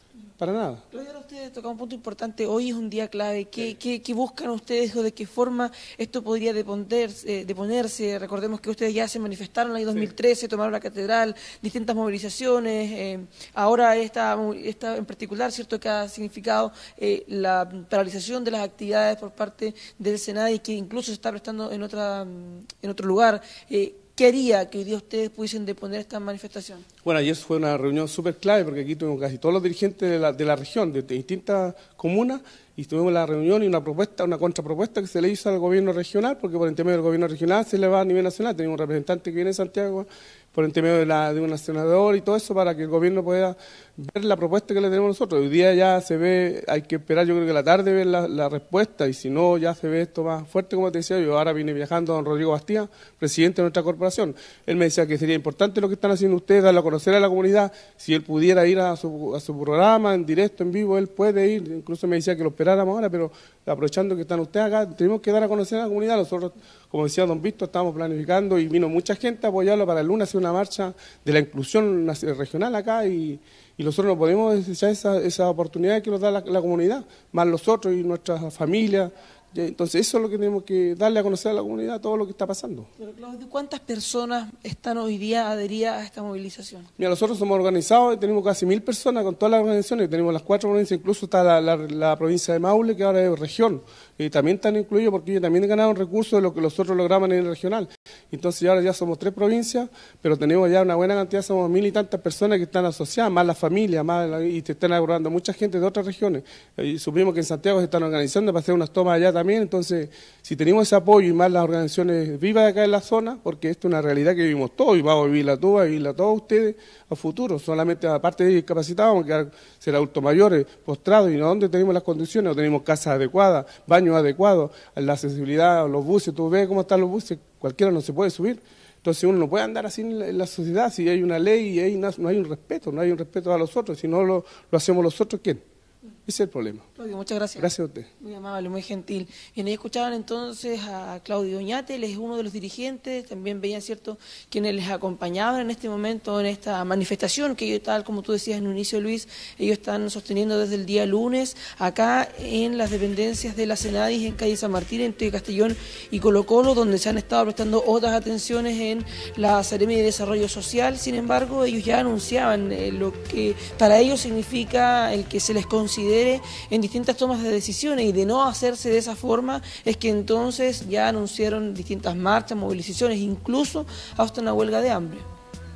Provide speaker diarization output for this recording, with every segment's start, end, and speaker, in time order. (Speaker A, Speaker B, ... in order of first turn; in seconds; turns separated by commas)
Speaker A: 0.4-0.8, Speaker B: 0.9-26.9, Speaker A: 27.0-82.9, Speaker B: 83.0-86.9, Speaker A: 87.0-135.6, Speaker A: 136.3-136.8, Speaker B: 137.0-137.7, Speaker A: 137.6-138.1, Speaker B: 138.2-175.3